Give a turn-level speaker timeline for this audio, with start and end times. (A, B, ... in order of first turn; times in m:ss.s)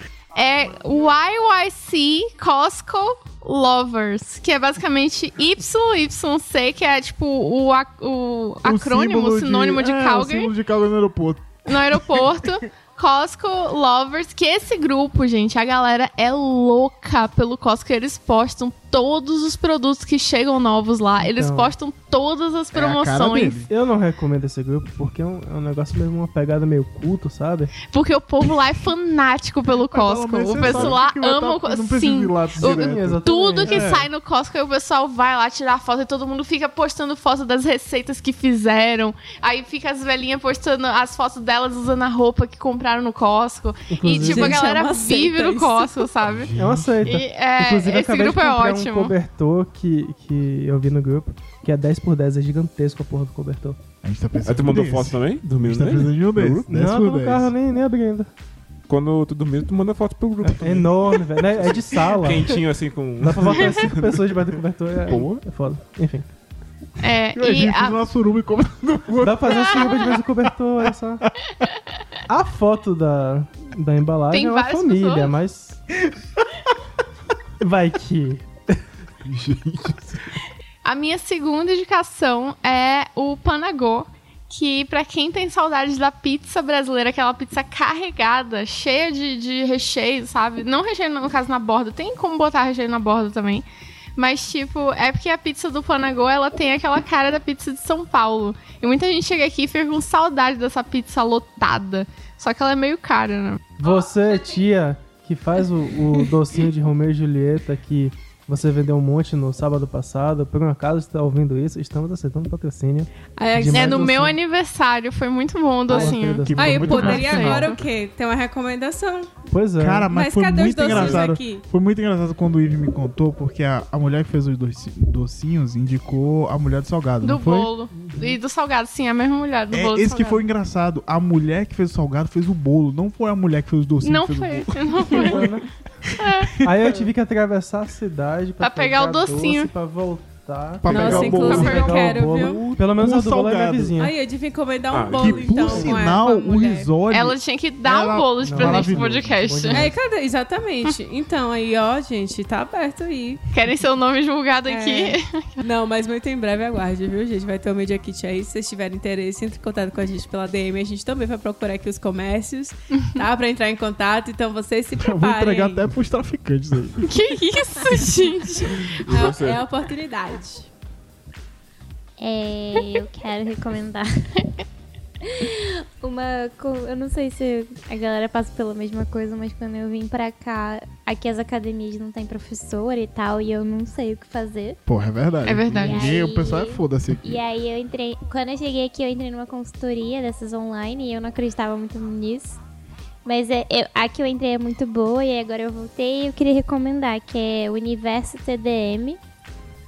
0:00.3-0:10.5 A
0:08.6-0:12.3 B
0:11.6-0:23.6 A
0:21.2-0:21.7 C
0:22.7-0:23.7 B
0:23.7-0:27.7 C
0:27.8-0:46.5 A
0:29.9-0:34.1 B
0:30.6-0:31.0 D
0:32.6-0:33.9 C
0:43.9-0:44.6 C
0:44.1-0:45.9 E
0:46.2-0:47.2 D
0:46.5-0:53.8 C
0:47.0-0:49.1 A
0:54.0-0:57.5 B
0:54.4-0:56.7 D
0:56.7-0:58.3 C
0:58.9-1:05.4 D
1:00.6-1:06.3 C
1:07.0-1:08.0 A
1:07.3-1:10.1 B
1:09.2-1:11.3 C
1:09.5-1:09.9 A
1:12.3-1:15.8 C
1:14.3-1:15.3 A
1:17.6-1:18.8 C
1:19.2-1:20.2 D
1:20.8-1:43.7 A
1:43.8-1:54.4 C
1:53.4-1:54.1 E
1:53.7-1:57.8 A
1:55.9-1:57.6 C
1:55.9-1:57.7 B
1:56.6-1:59.4 E
1:59.5-2:00.1 C
1:59.8-2:07.7 B
2:00.1-2:01.6 E
2:00.8-2:01.2 D
2:07.2-2:10.4 A
2:08.0-2:08.4 C
2:09.7-2:15.5 B
2:14.0-2:15.5 A
2:15.1-2:15.6 C
2:16.1-2:16.7 B
2:16.2-2:16.6 A
2:16.6-2:24.1 C
2:18.6-2:19.7 A
2:20.8-2:23.9 B
2:20.8-2:22.6 E
2:20.9-2:22.2 A
2:24.0-2:26.9 E
2:24.9-2:26.0 D
2:25.1-2:29.5 B
2:27.1-2:29.9 A
2:28.4-2:30.0 C
2:29.7-2:33.4 E
2:33.5-2:35.5 A
2:34.6-2:45.9 E
2:45.0-2:47.1 B
2:47.0-2:49.0 A
2:48.0-2:50.7 E
2:48.8-2:49.6 D
2:52.2-2:54.3 F
2:55.2-3:04.8 F
3:04.8-3:07.4 B
3:05.4-3:06.1 A
3:05.7-3:12.6 F
3:13.2-3:19.2 F